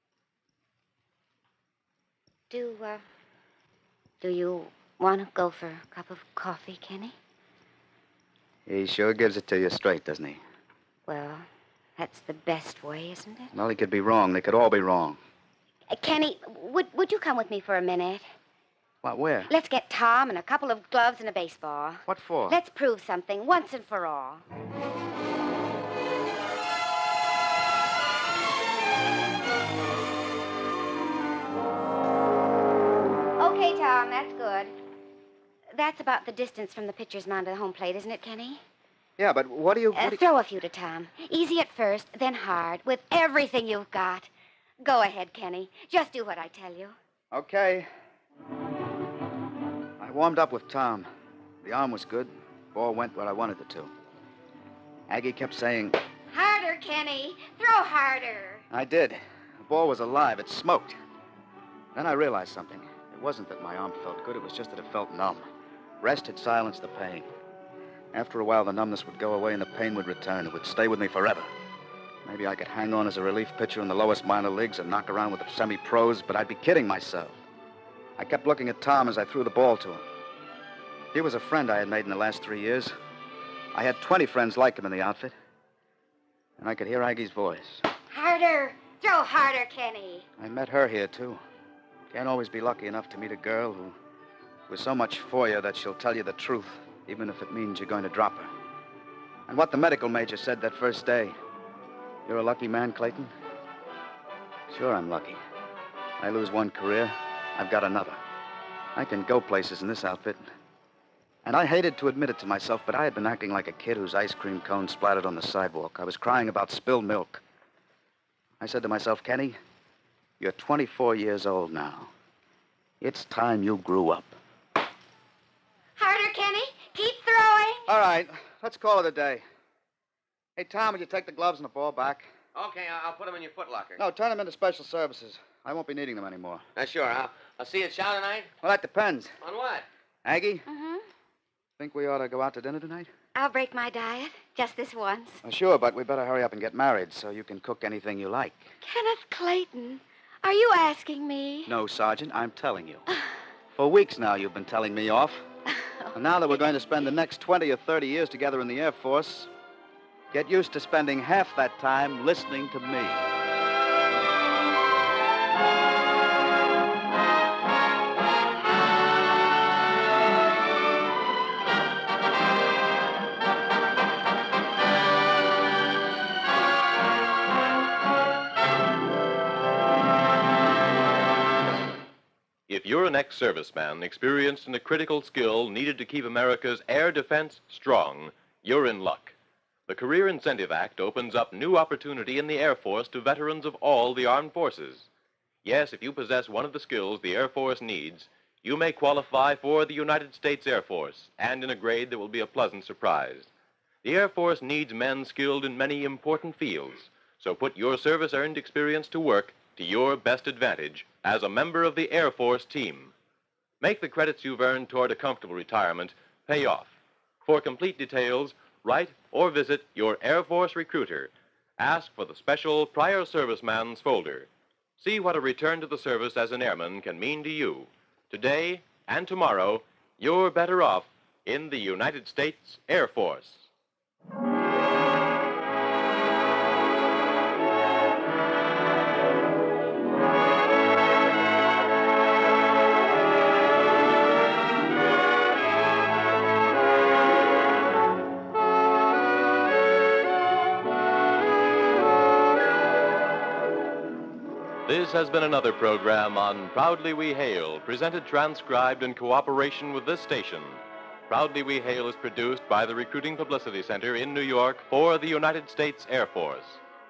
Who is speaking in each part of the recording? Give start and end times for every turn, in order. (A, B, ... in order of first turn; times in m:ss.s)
0:02.5-0:03.0 A
0:04.2-0:07.1 A
0:08.6-0:10.4 B
0:11.1-0:11.4 A
0:12.0-0:13.5 A
0:13.5-0:15.2 B
0:15.9-0:18.3 A
0:19.0-0:19.5 B
0:19.5-0:24.4 A
0:22.0-0:22.6 B
0:33.4-0:34.7 A
0:35.7-0:38.6 A
0:39.2-0:40.2 B
0:39.9-0:44.3 A
0:44.8-0:47.0 A
0:47.3-0:47.9 B
0:50.0-0:51.1 B
0:51.6-0:53.9 B
0:55.1-0:56.0 B
0:56.3-0:58.6 A
0:58.7-1:01.0 B
1:01.9-1:05.4 B
1:06.0-1:07.2 B
1:08.1-1:11.5 B
1:12.2-1:17.3 B
1:18.2-1:20.0 B
1:21.1-1:22.9 B
1:23.7-1:25.3 B
1:26.6-1:27.8 B
1:28.1-1:30.2 A
1:30.4-1:31.4 B
1:32.1-1:34.0 B
1:34.7-1:38.5 B
1:39.5-1:41.3 B
1:42.2-1:43.3 B
1:44.7-1:45.4 B
1:46.2-1:48.2 B
1:49.0-1:50.4 B
1:51.4-1:57.4 B
1:58.6-1:59.6 B
2:00.4-2:02.1 B
2:03.0-2:04.3 B
2:06.0-2:07.9 A
2:07.9-2:09.4 B
2:10.6-2:12.3 B
2:12.5-2:14.0 C
2:14.0-2:16.6 B
2:16.8-2:18.5 C
2:18.6-2:19.3 B
2:19.4-2:19.8 C
2:20.2-2:20.6 B
2:20.7-2:21.0 A
2:21.8-2:23.1 B
2:23.4-2:25.4 A
2:25.4-2:28.7 B
2:28.8-2:31.7 A
2:31.6-2:33.0 B
2:33.7-2:35.4 B
2:36.1-2:39.5 B
2:40.3-2:43.2 B
3:02.7-3:09.3 D
3:09.9-3:15.1 D
3:15.6-3:23.5 D
3:24.0-3:33.1 D
3:33.8-3:36.9 D
3:37.4-3:53.7 D
4:14.8-4:26.8 D